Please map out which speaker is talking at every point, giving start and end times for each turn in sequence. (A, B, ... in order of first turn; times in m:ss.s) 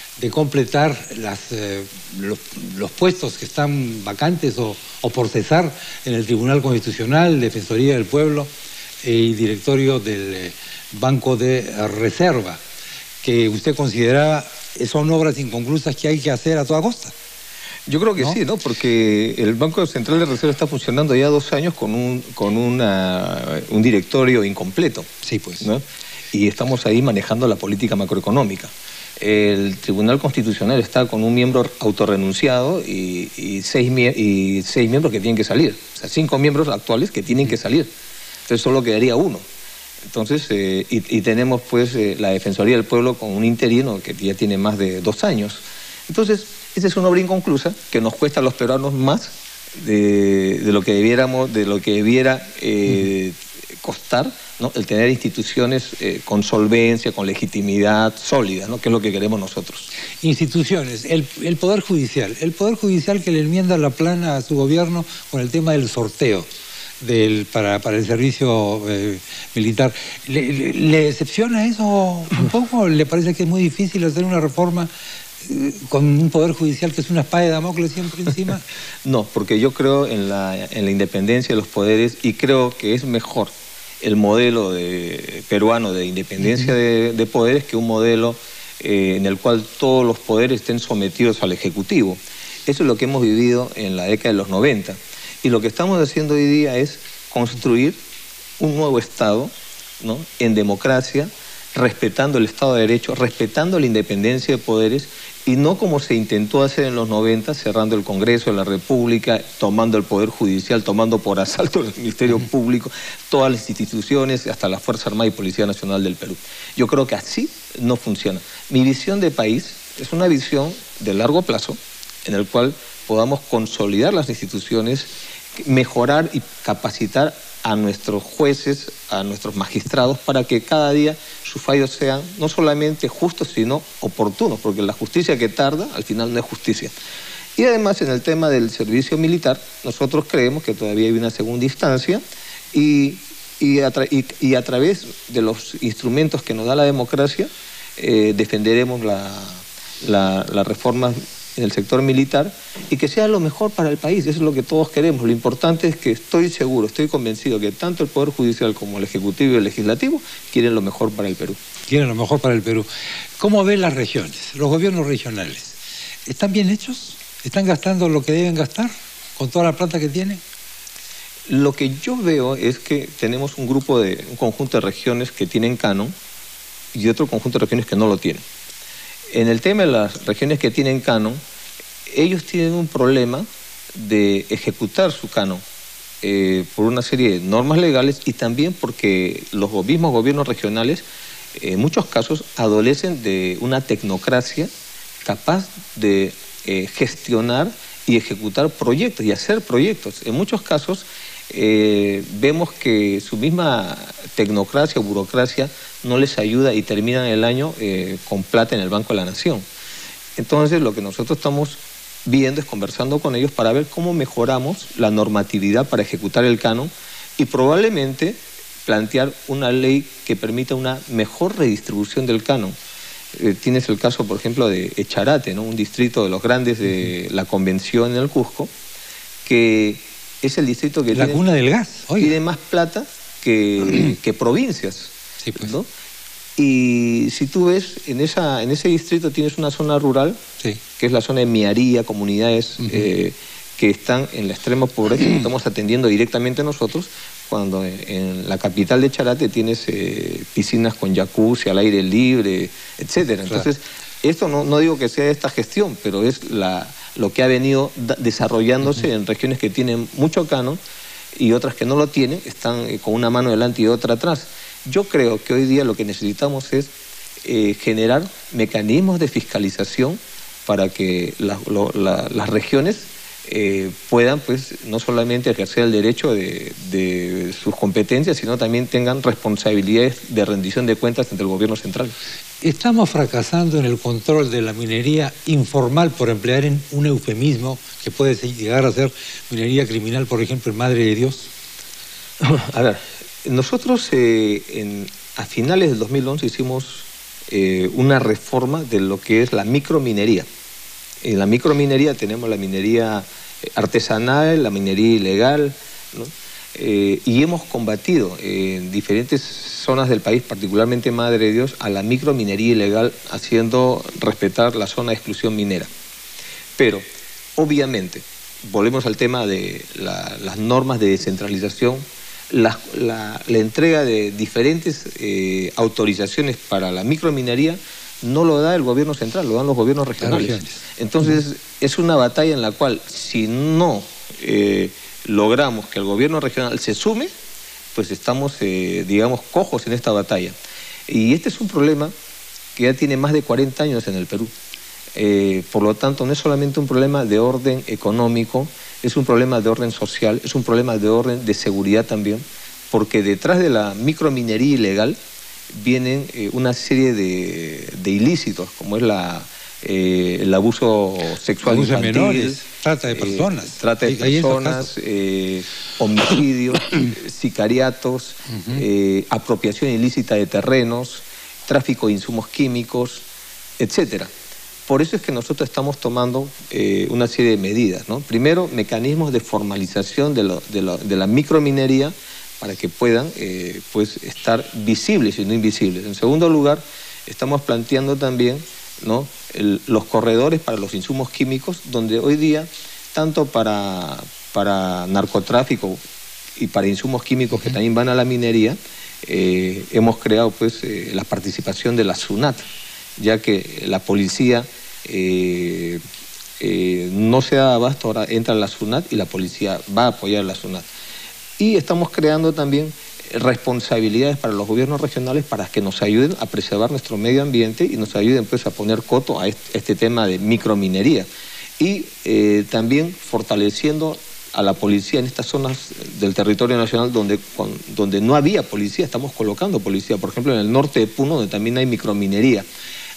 0:00.2-0:08.5 A
0:09.0-0:12.6 A
0:13.2-0:17.1 A
0:17.9-0:25.1 B
0:25.2-0:25.6 A
0:25.6-0:37.9 B
0:38.5-0:39.4 B
0:40.1-0:59.9 B
1:00.2-1:06.5 A
1:07.0-1:14.9 A
1:15.4-1:18.6 A
1:19.0-1:38.0 B
1:38.6-2:16.9 B
2:17.6-2:22.2 B
2:22.7-2:41.6 B
2:41.9-2:42.9 A
2:43.4-2:50.4 A
2:51.5-2:56.1 B
2:56.9-2:58.4 B
2:59.3-3:01.4 B
3:02.1-3:05.6 B
3:06.2-3:11.0 B
3:11.6-3:14.7 B
3:15.2-3:29.6 B
3:30.4-3:42.7 B
3:43.3-3:48.7 B
3:49.4-3:51.4 B
3:51.2-3:52.4 A
3:52.2-3:55.9 B
3:55.5-3:55.7 A
3:56.6-4:00.4 B
4:01.0-4:20.8 B
4:21.4-4:26.9 B
4:27.4-4:42.1 B
4:42.6-4:51.5 A
4:52.4-5:00.5 B
5:01.2-5:15.9 B
5:16.8-5:17.0 B
5:17.6-5:37.3 B
5:30.2-5:30.8 A
5:37.9-5:40.6 B
5:41.1-5:42.1 B
5:42.8-5:44.5 B
5:45.2-5:55.2 B
5:55.7-6:13.2 B
6:01.7-6:04.9 A
6:13.8-6:14.3 B
6:14.9-6:36.0 B
6:36.6-6:42.6 B
6:43.2-6:46.0 B
6:46.6-6:50.9 B
6:51.6-7:01.3 B
7:01.8-7:12.7 B